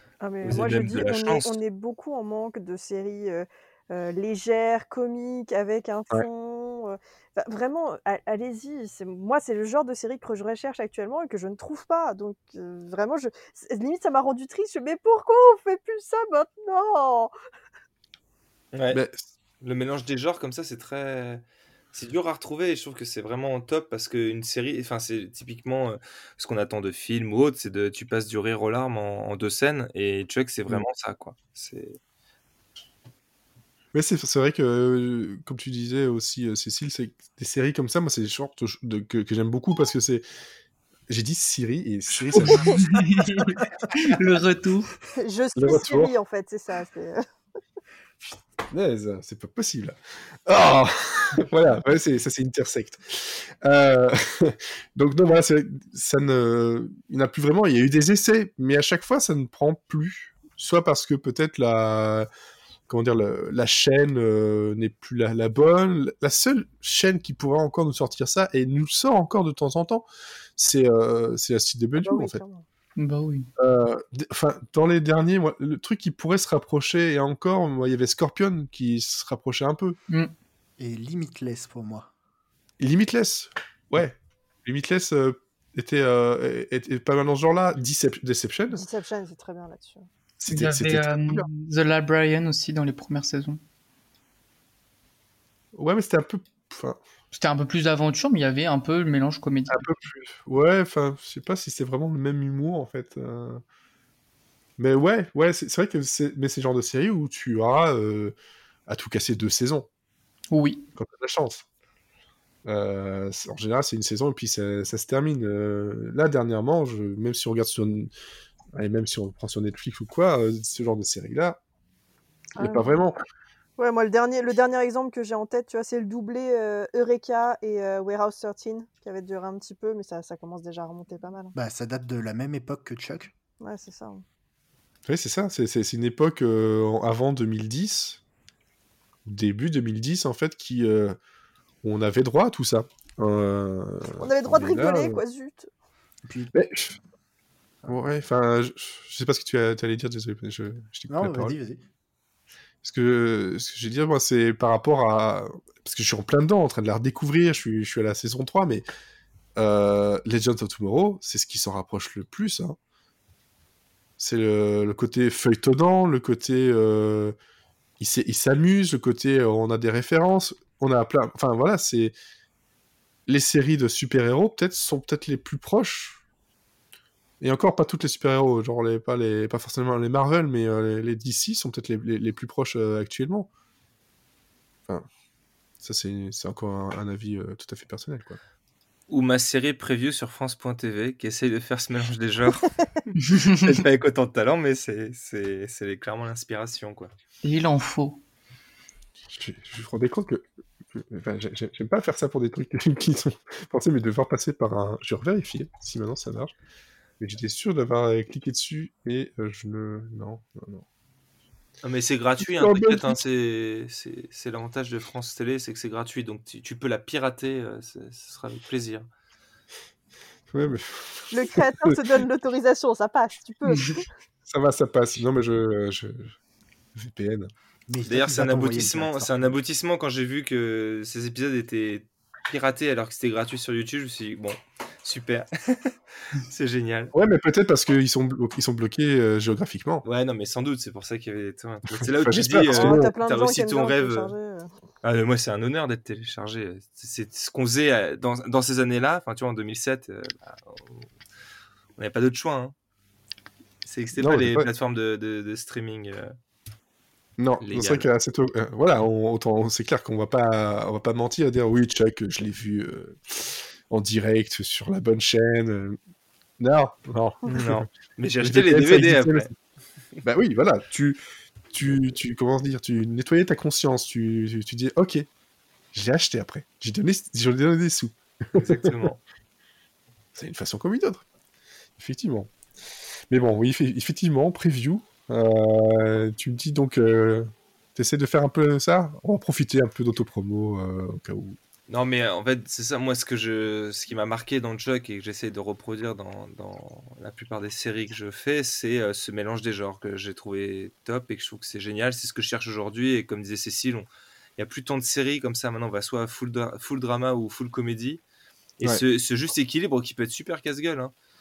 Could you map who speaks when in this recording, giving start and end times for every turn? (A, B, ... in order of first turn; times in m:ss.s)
0:00.2-0:17.3 A
0:00.4-0:01.6 B
0:18.7-0:19.0 B
0:18.9-0:19.2 C
0:19.6-0:21.4 B
0:21.9-0:32.0 B
0:33.9-0:40.2 C
0:41.1-0:42.9 C
0:42.4-0:44.9 D
0:45.2-0:47.2 A
0:45.6-0:46.1 C
0:48.3-1:02.3 C
1:02.9-1:12.4 C
1:12.0-1:12.6 A
1:13.0-1:13.5 D
1:13.6-1:20.0 C
1:20.8-1:22.1 E
1:22.8-1:28.8 C
1:28.7-1:30.0 A
1:30.4-1:31.4 C
1:30.5-1:33.6 D
1:35.7-1:37.0 C
1:37.3-1:39.8 D
1:39.7-1:43.6 C
1:44.8-1:48.3 C
1:48.9-1:49.9 C
1:50.5-1:50.8 D
1:51.0-1:51.6 C
1:52.6-1:58.1 C
1:58.7-2:01.6 C
2:02.6-2:03.0 A
2:02.6-2:03.2 C
2:03.8-2:11.5 A
2:11.5-2:13.3 E
2:13.6-2:14.2 A
2:15.0-2:18.2 C
2:19.2-2:21.2 C
2:21.8-2:25.2 C
2:24.2-2:25.7 A
2:26.2-2:26.5 E
2:26.5-2:27.0 C
2:27.9-2:31.6 C
2:31.1-2:31.8 E
2:32.8-2:38.8 C
2:39.6-2:42.8 C
2:44.2-2:47.3 C
2:48.0-2:52.1 C
2:53.3-2:56.2 C
2:57.4-3:03.5 C
3:05.8-3:08.4 C
3:09.1-3:12.7 B
3:13.5-3:17.1 B
3:17.4-3:18.2 D
3:19.3-3:20.4 C
3:21.0-3:26.5 C
3:27.2-3:30.8 C
3:31.8-3:39.1 B
3:32.4-3:33.2 C
3:40.5-3:42.0 C
3:41.3-3:44.0 A
3:44.4-3:46.3 C
3:46.9-3:47.5 C
3:47.9-3:49.5 E
3:48.0-3:57.1 B
3:57.1-4:00.0 C
4:00.0-4:04.3 B
4:02.0-4:03.1 C
4:02.7-4:04.7 A
4:05.0-4:11.1 B
4:12.0-4:12.7 B
4:13.8-4:16.3 B
4:14.2-4:14.7 C
4:17.4-4:26.0 C
4:17.6-4:18.1 B
4:26.6-4:27.9 C
4:27.5-4:29.5 B
4:28.4-4:29.5 C
4:30.2-4:31.2 C
4:31.7-4:35.3 C
4:35.9-4:38.9 C
4:38.6-4:39.2 B
4:40.3-4:41.2 C
4:42.0-4:42.5 C
4:43.3-4:51.6 C
4:51.9-5:08.2 B
5:08.8-5:11.1 B